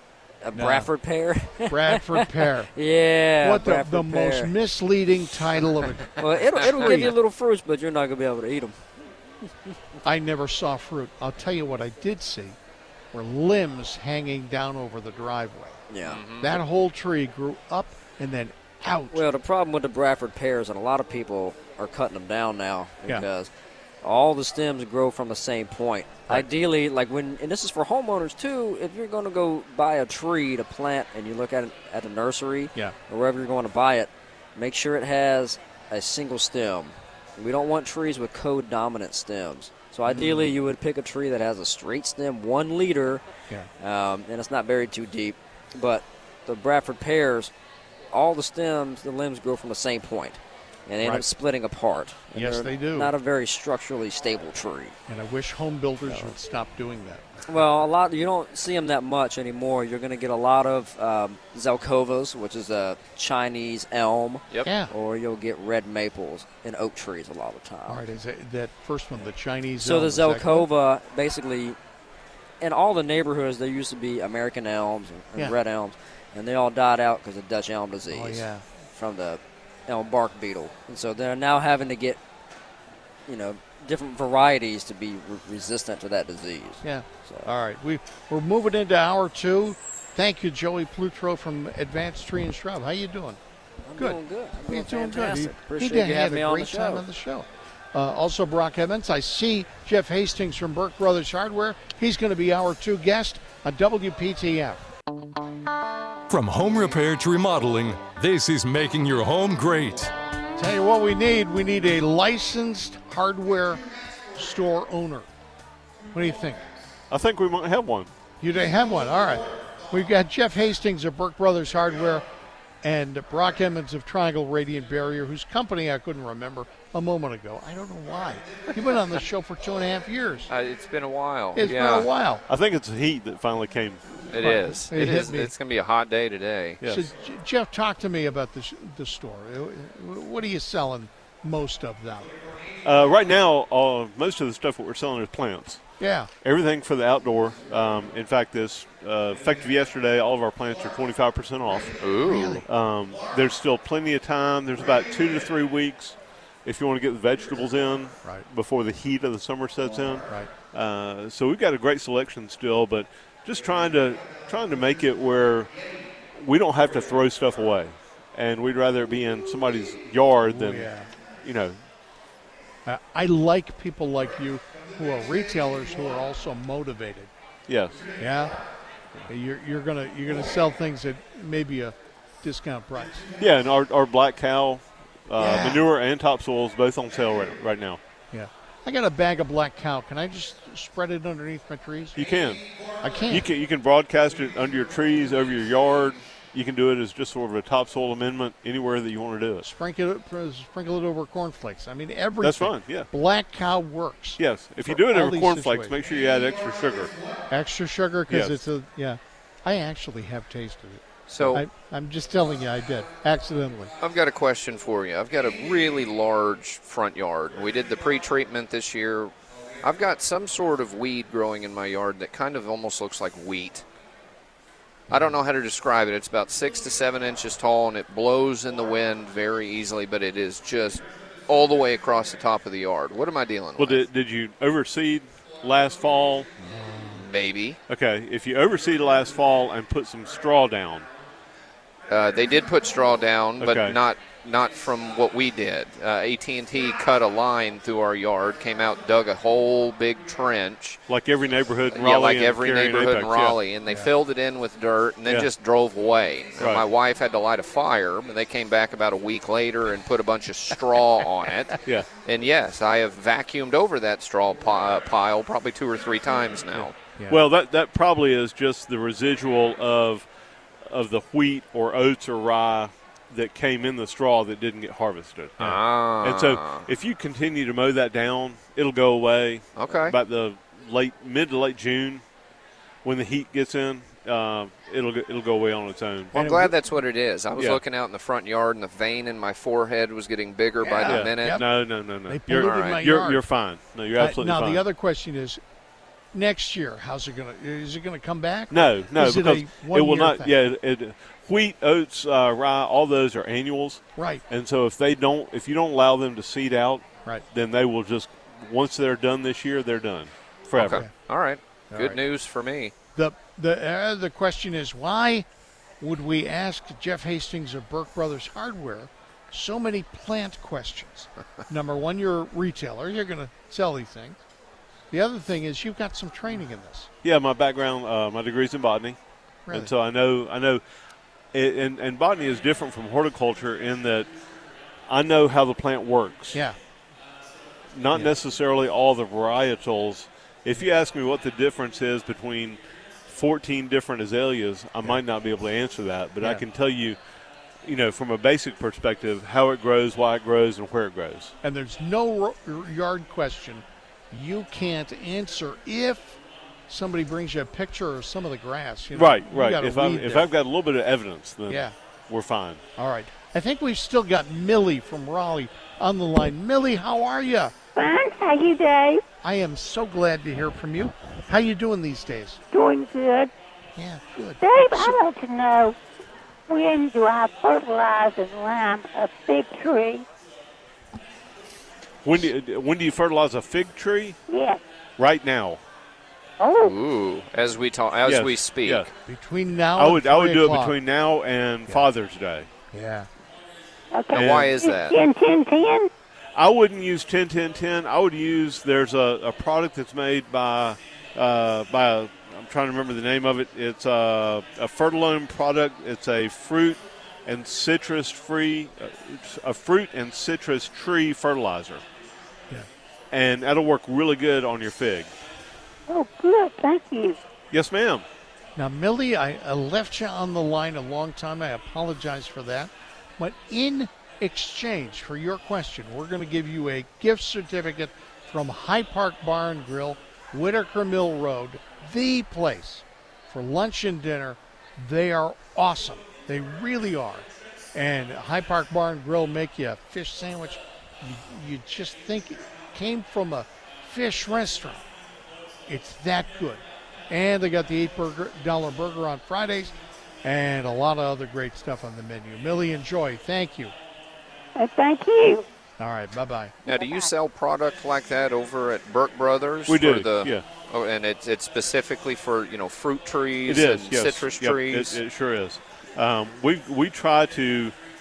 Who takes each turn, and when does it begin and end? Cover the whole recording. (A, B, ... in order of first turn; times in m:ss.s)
0:00.4-0:04.5 A
0:00.5-0:00.9 B
0:01.7-0:02.7 B
0:03.4-0:07.1 B
0:06.2-0:08.8 A
0:10.0-0:12.6 B
0:13.1-0:15.8 B
0:15.9-0:16.2 A
0:16.0-0:16.6 C
0:16.4-0:19.2 B
0:19.1-0:23.5 A
0:24.0-0:43.2 A
0:40.0-0:40.6 B
0:43.8-0:47.5 A
0:48.1-0:55.0 A
0:51.0-0:51.2 B
0:52.3-0:53.1 B
0:55.1-0:57.4 B
0:56.1-0:56.3 A
0:57.5-1:08.0 A
1:04.6-1:04.9 B
1:07.9-1:10.7 B
1:09.8-1:11.8 A
1:12.6-1:22.2 A
1:18.1-1:18.6 B
1:23.3-1:27.5 A
1:26.8-1:33.4 B
1:33.8-1:37.0 A
1:34.0-1:44.8 B
1:46.3-1:50.1 D
1:50.6-1:53.8 B
1:54.3-1:55.3 B
1:56.1-1:56.6 B
1:57.1-1:58.1 E
1:58.4-2:02.2 B
2:02.8-2:10.5 B
2:10.5-2:12.1 C
2:11.5-2:12.4 B
2:12.5-2:14.2 E
2:14.3-2:16.8 C
2:14.4-2:15.5 B
2:16.8-2:17.0 E
2:16.8-2:22.3 B
2:22.8-2:25.8 E
2:26.0-2:26.3 B
2:26.4-2:32.1 E
2:32.0-2:32.6 C
2:32.2-2:32.6 B
2:32.6-2:45.7 E
2:46.4-2:50.9 E
2:50.5-2:51.1 B
2:51.4-2:51.8 E
2:52.8-2:57.3 B
2:57.7-2:58.1 E
2:58.2-2:58.6 B
2:59.2-3:03.2 B
3:03.4-3:08.0 E
3:05.4-3:05.9 B
3:08.3-3:12.2 B
3:12.1-3:12.6 E
3:13.0-3:13.4 B
3:13.3-3:19.6 E
3:19.6-3:26.0 B
3:22.4-3:23.1 E
3:24.4-3:27.1 E
3:27.5-3:33.9 B
3:28.3-3:28.6 E
3:31.3-3:31.6 C
3:34.0-3:43.8 C
3:45.1-3:54.1 C
3:53.8-3:56.5 E
3:56.7-3:57.2 B
3:57.1-3:57.8 C
3:57.9-4:01.0 E
4:02.1-4:11.0 C
4:03.6-4:04.0 E
4:11.1-4:13.6 E
4:11.9-4:26.9 C
4:16.6-4:16.8 E
4:26.8-4:27.4 B
4:27.3-4:30.3 E
4:30.8-4:42.2 E
4:35.6-4:36.9 C
4:39.8-4:40.1 C
4:43.0-4:46.3 E
4:46.3-4:46.7 B
4:46.3-4:51.6 C
4:50.8-4:53.4 B
4:51.1-4:54.8 E
4:52.5-4:53.0 C
4:54.2-4:55.6 B
4:56.3-5:00.5 B
4:58.7-5:11.0 E
5:04.2-5:04.4 B
5:10.7-5:12.9 C
5:11.9-5:12.2 B
5:13.2-5:15.5 B
5:16.0-5:24.4 B
5:25.1-5:27.1 B
5:27.2-5:29.2 E
5:29.7-5:30.8 E
5:31.5-5:34.3 E
5:35.1-5:36.6 E
5:36.5-5:36.8 B
5:37.9-5:47.2 E
5:47.8-5:51.5 E
5:51.6-6:00.5 B
5:59.1-6:02.8 E
6:01.7-6:01.9 B
6:03.0-6:07.7 B
6:07.9-6:09.2 F
6:09.4-6:12.6 B
6:12.7-6:13.5 F
6:13.9-6:15.2 B
6:14.6-6:16.0 F
6:16.7-6:20.2 F
6:22.2-6:24.4 E
6:24.5-6:24.8 F
6:25.2-6:25.8 E
6:26.6-6:26.9 F
6:26.8-6:29.1 C
6:28.2-6:29.1 E
6:29.2-6:31.0 B
6:30.0-6:32.7 E
6:32.9-6:33.3 B
6:34.1-6:36.1 F
6:34.3-6:35.2 C
6:34.4-6:34.7 E
6:36.6-6:52.0 E
6:53.3-6:55.3 E
6:56.1-6:57.4 F
6:57.7-6:58.2 E
6:58.8-7:25.0 B
7:25.9-7:33.9 B
7:34.8-7:35.6 F
7:36.0-7:36.7 B
7:36.8-7:45.2 C
7:36.9-7:37.3 F
7:39.9-7:40.6 E
7:43.7-7:47.9 E